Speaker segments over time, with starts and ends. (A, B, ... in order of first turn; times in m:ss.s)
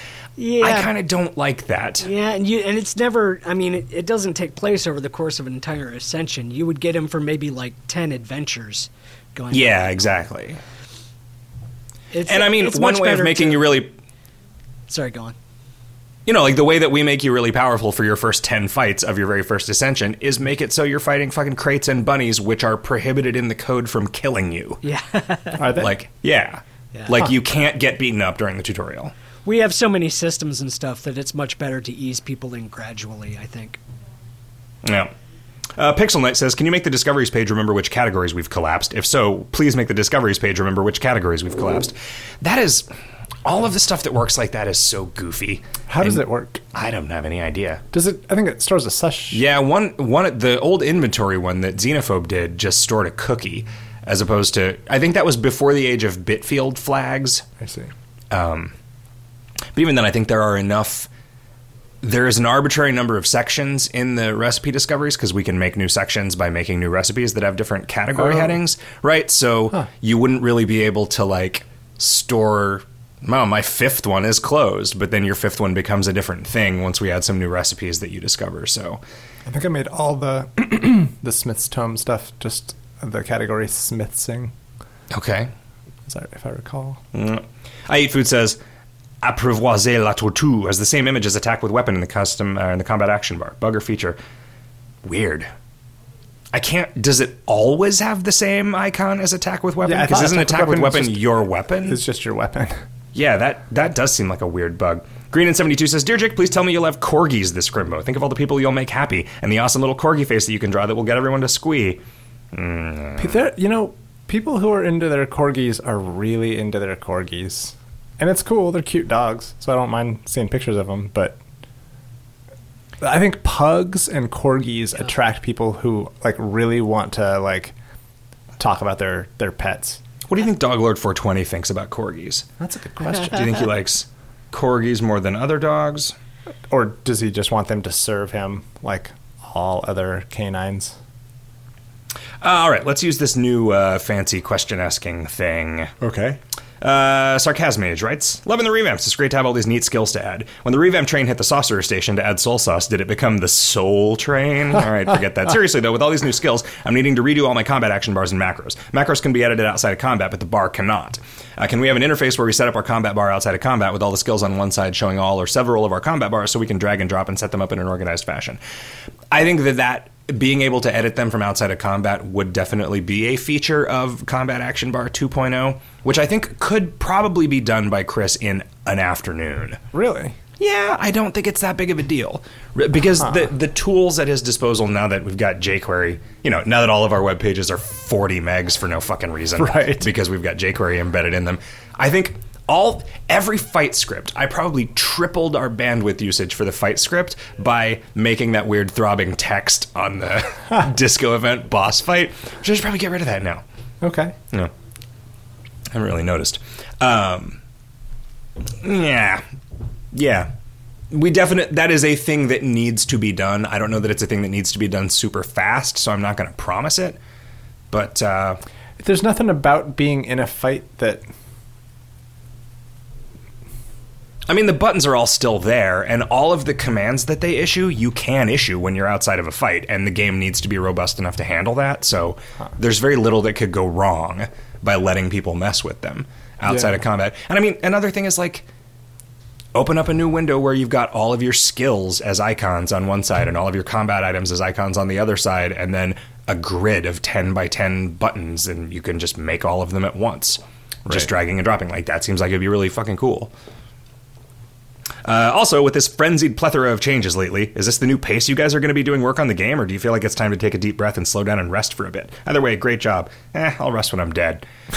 0:00.4-0:00.9 A
0:00.6-0:02.1 B
0:02.0-0:10.0 A
0:09.5-0:10.6 B
0:12.1-0:13.7 A
0:12.2-0:14.0 B
0:14.9-0:15.4 A
0:16.2-0:24.8 B
0:24.8-0:25.7 A
0:25.6-0:25.9 C
0:25.7-0:29.1 B
0:29.4-0:33.8 A
0:34.8-0:35.1 B
0:35.8-0:42.9 B
0:43.4-0:47.8 B
0:45.9-0:46.6 C
0:47.9-0:49.4 C
0:49.3-0:57.5 B
0:57.6-0:57.9 C
0:58.3-0:58.7 B
0:59.7-1:01.1 B
1:02.0-1:19.0 B
1:08.2-1:08.5 C
1:19.4-1:24.5 C
1:25.1-1:25.5 B
1:26.1-1:27.0 C
1:27.1-1:28.6 B
1:29.2-1:34.2 B
1:35.0-1:35.5 B
1:36.5-1:42.0 B
1:39.8-1:42.8 C
1:43.1-1:52.0 B
1:52.5-1:53.4 B
1:53.2-2:01.4 C
2:03.0-2:07.7 C
2:08.6-2:10.0 C
2:10.3-2:12.5 B
2:12.6-2:13.5 C
2:13.0-2:16.1 B
2:16.7-2:21.0 C
2:22.4-2:25.9 B
2:26.0-2:26.4 C
2:26.8-2:48.6 B
2:49.3-2:59.8 B
2:59.9-3:00.4 C
3:00.6-3:23.6 B
3:03.2-3:03.5 C
3:09.6-3:10.1 C
3:24.0-3:24.4 C
3:25.9-3:27.6 B
3:28.8-3:29.4 B
3:30.1-3:30.5 B
3:31.1-3:37.2 B
3:37.9-3:38.6 B
3:39.0-3:41.2 C
3:44.5-3:58.7 B
3:56.7-3:56.9 C
3:59.7-4:13.5 B
4:15.2-4:24.6 B